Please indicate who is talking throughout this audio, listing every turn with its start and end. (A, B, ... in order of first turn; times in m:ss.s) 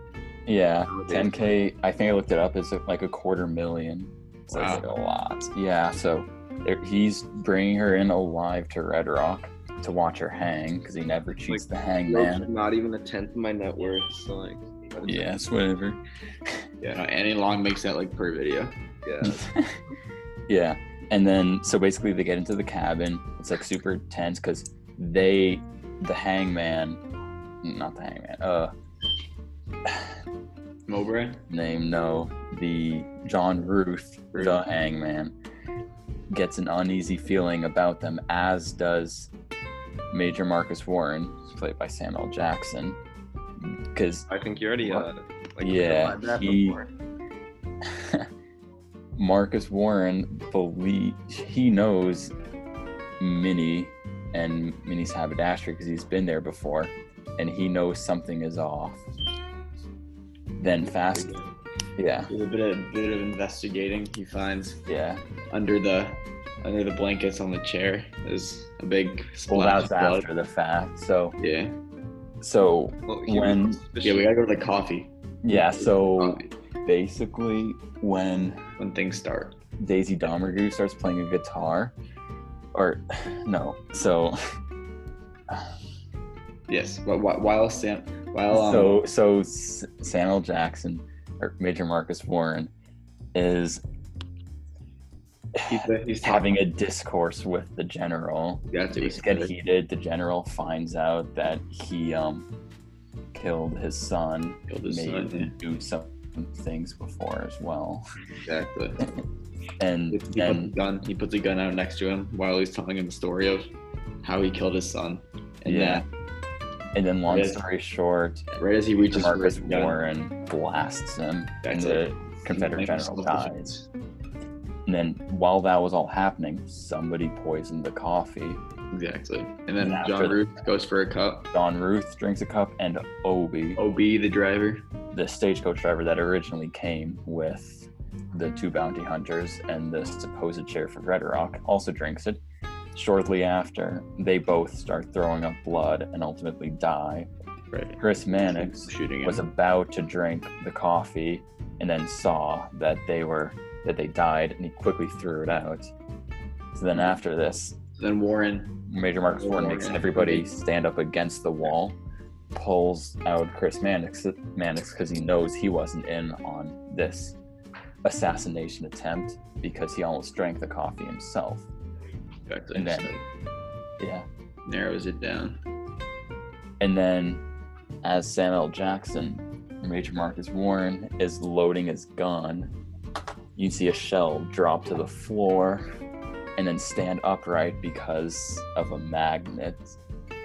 0:00.5-0:12.5 A
0:00.9-0:01.3 B
0:04.5-0:04.9 C
0:11.5-0:15.3 B
0:15.0-0:16.5 A
0:16.9-0:18.8 C
0:19.0-0:19.4 B
0:19.2-0:19.8 A
0:20.5-0:27.0 A
0:27.6-0:28.7 A
0:30.9-0:31.4 C
0:31.5-0:35.4 A
0:36.3-0:39.3 A
0:40.1-0:43.0 A
0:43.6-0:44.3 A
0:44.3-0:46.9 B
0:44.8-0:45.1 A
0:45.6-0:46.8 A
0:47.8-0:48.3 A
0:49.2-0:52.3 A
0:53.2-0:59.0 A
1:00.6-1:01.3 A
1:01.0-1:01.4 C
1:02.0-1:02.3 A
1:02.3-1:04.8 C
1:04.9-1:05.2 A
1:05.5-1:10.3 C
1:09.5-1:11.4 A
1:11.4-1:11.8 C
1:12.4-1:13.8 A
1:13.1-1:14.3 B
1:14.0-1:16.5 C
1:15.4-1:18.6 A
1:18.8-1:19.6 C
1:19.8-1:22.0 A
1:22.7-1:24.4 A
1:26.7-1:29.0 C
1:28.5-1:32.7 A
1:33.3-1:33.8 A
1:35.6-1:42.5 A
1:35.7-1:36.5 C
1:38.7-1:39.5 C
1:43.3-1:48.0 A
1:44.7-1:45.5 C
1:48.4-1:49.1 C
1:49.8-1:50.8 A
1:50.1-1:53.6 C
1:54.2-1:56.0 C
1:55.6-1:56.0 A
1:57.0-2:03.7 A
1:57.3-1:57.6 C
1:58.5-2:00.0 C
2:01.6-2:03.9 C
2:04.9-2:08.6 A
2:08.9-2:11.5 C
2:09.8-2:10.5 A
2:11.5-2:13.8 A
2:13.8-2:14.9 C
2:15.1-2:22.4 A
2:22.9-2:27.3 A
2:27.7-2:29.4 C
2:28.0-2:35.9 A
2:36.8-2:37.8 A
2:38.0-2:40.5 C
2:38.9-2:42.0 A
2:42.5-2:47.4 A
2:48.0-2:51.7 A
2:52.5-2:53.2 C
2:52.8-2:53.1 A
2:54.0-2:54.2 A
2:54.7-2:55.6 C
2:56.8-2:57.4 A
2:58.0-3:02.7 A
3:03.6-3:05.9 A
3:06.6-3:10.0 A